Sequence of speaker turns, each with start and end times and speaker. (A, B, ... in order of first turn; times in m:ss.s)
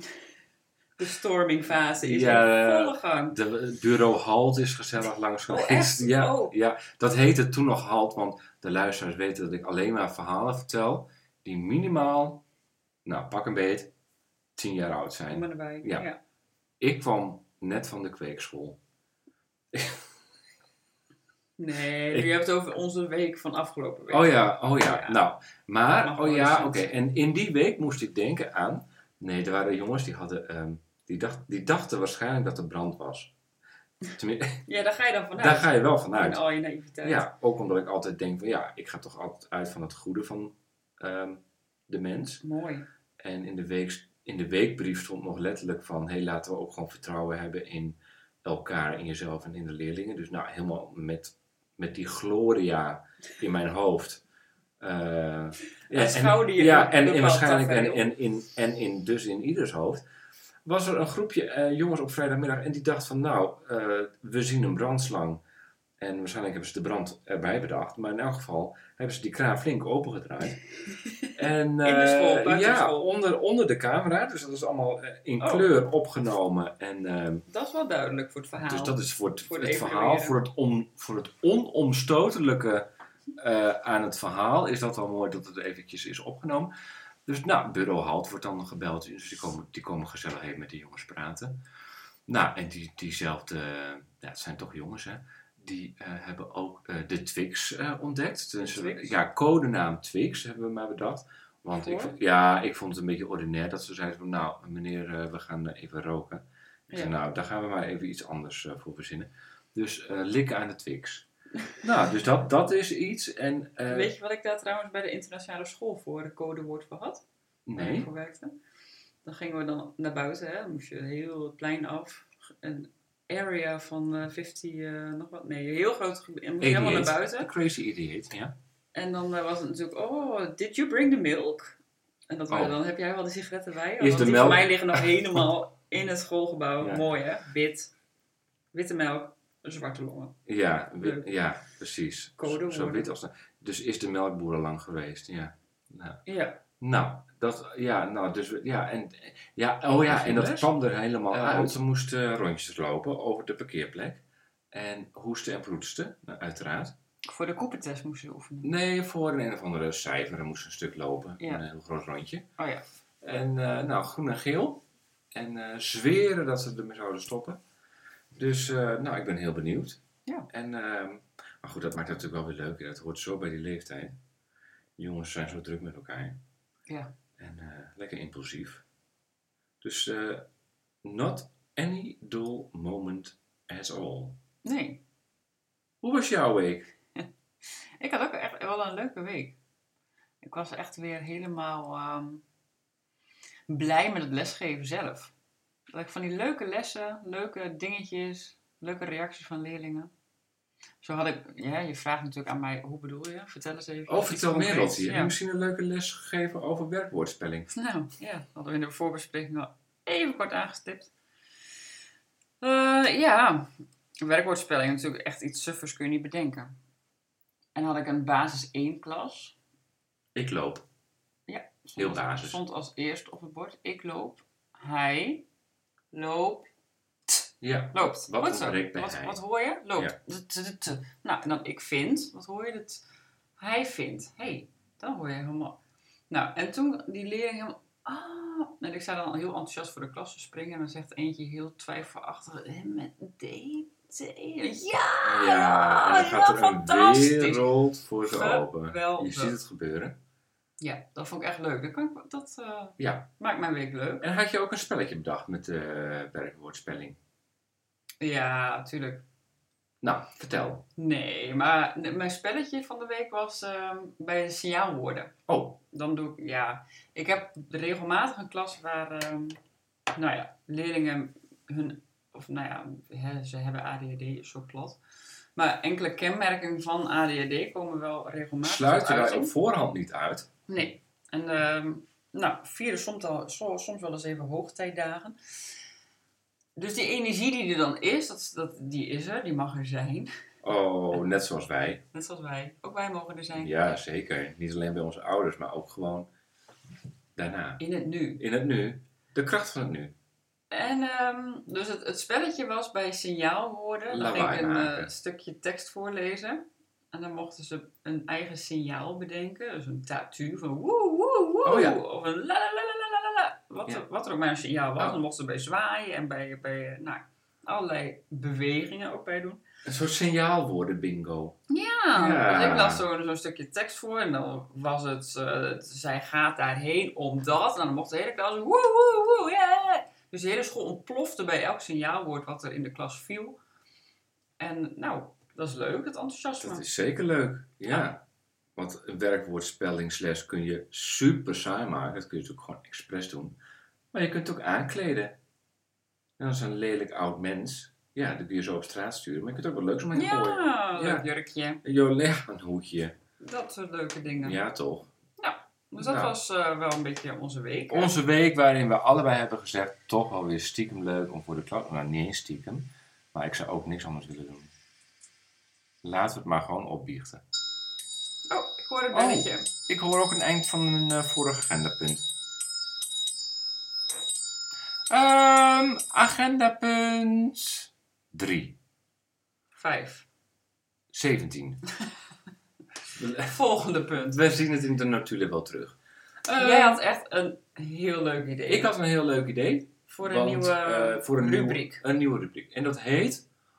0:01.0-0:03.4 A
0:02.0-0:12.4 B
0:05.5-0:06.5 A
0:13.0-0:13.9 B
0:14.6-0:16.1 B
0:15.3-0:16.2 A
0:16.8-0:18.8 B
0:19.7-0:20.0 B
0:21.6-0:25.2 A
0:24.1-0:33.3 B
0:26.0-0:27.0 A
0:34.2-0:34.6 B
0:34.7-0:37.3 A
0:35.4-0:36.4 B
0:37.0-0:42.4 B
0:42.4-0:42.9 A
0:43.2-0:54.2 B
0:54.8-1:00.0 B
0:55.9-0:58.1 A
1:00.6-1:05.4 B
1:06.0-1:10.6 B
1:11.4-1:17.5 B
1:11.8-1:13.1 A
1:15.4-1:15.7 A
1:17.5-1:20.4 A
1:18.6-1:26.7 B
1:27.3-1:31.6 B
1:32.3-1:51.3 B
1:38.6-1:39.2 A
1:41.8-1:42.2 A
1:51.8-1:54.1 B
1:53.9-1:57.2 A
1:57.7-1:58.1 B
1:57.8-1:58.6 A
1:59.2-2:07.5 A
2:06.6-2:08.5 B
2:08.9-2:11.8 A
2:12.3-2:17.9 A
2:12.5-2:12.8 B
2:14.0-2:15.4 B
2:16.8-2:17.1 B
2:18.7-2:20.4 A
2:20.5-2:26.2 B
2:21.0-2:21.3 A
2:22.4-2:23.1 A
2:26.3-2:26.6 A
2:26.8-2:36.9 B
2:30.0-2:30.7 A
2:31.3-2:31.7 A
2:37.3-2:38.7 A
2:38.6-2:42.5 B
2:42.6-2:42.8 A
2:43.2-2:47.6 B
2:48.4-2:50.0 B
2:50.5-2:54.2 B
2:55.0-2:56.4 B
2:56.9-2:57.1 A
2:57.4-2:58.8 B
2:59.8-3:00.5 B
3:01.0-3:04.4 B
3:04.6-3:05.0 A
3:06.0-3:06.9 B
3:08.0-3:09.6 A
3:10.4-3:12.4 A
3:13.7-3:15.3 A
3:15.9-3:20.1 A
3:21.0-3:25.3 A
3:24.1-3:27.7 B
3:27.7-3:31.1 A
3:32.6-3:33.7 A
3:34.2-3:36.8 A
3:37.8-3:39.6 A
3:40.4-3:40.9 B
3:41.5-3:45.4 A
3:42.0-3:42.6 B
3:46.1-3:46.7 A
3:47.3-3:53.0 A
3:47.6-3:49.4 B
3:53.6-3:55.8 A
3:56.3-4:07.7 A
4:05.2-4:10.2 B
4:08.2-4:09.6 A
4:10.8-4:14.3 A
4:13.0-4:13.3 B
4:14.2-4:17.2 B
4:18.2-4:19.2 A
4:20.0-4:20.9 B
4:21.0-4:25.3 A
4:25.5-4:25.8 B
4:25.9-4:29.6 A
4:30.2-4:35.0 A
4:35.6-4:39.6 A
4:38.6-4:40.5 B
4:40.7-4:45.4 A
4:46.8-4:50.3 A
4:50.6-4:52.0 B
4:52.1-4:53.7 A
4:53.6-4:56.3 B
4:57.4-4:57.8 B
4:57.8-4:58.4 A
4:58.4-5:00.1 B
5:00.7-5:19.6 A
5:04.1-5:05.1 B
5:11.6-5:12.0 B
5:19.8-5:21.6 B
5:21.7-5:33.6 A
5:22.1-5:23.0 B
5:34.6-5:36.8 A
5:36.6-5:38.2 B
5:38.8-5:43.6 B
5:44.1-5:45.4 B
5:46.4-5:51.3 B
5:50.1-5:51.8 A
5:51.8-5:53.2 B
5:53.4-5:54.6 A
5:54.4-5:55.1 B
5:55.4-5:58.1 A
5:56.0-5:56.3 B
5:57.9-6:04.7 B
6:06.0-6:07.4 B
6:08.5-6:09.7 A
6:09.1-6:12.3 B
6:15.1-6:18.8 B
6:19.8-6:20.3 A
6:21.1-6:21.8 B
6:23.2-6:23.6 B
6:23.4-6:24.4 A
6:24.3-6:27.0 B
6:26.6-6:28.9 A
6:28.7-6:33.4 B
6:30.1-6:32.0 A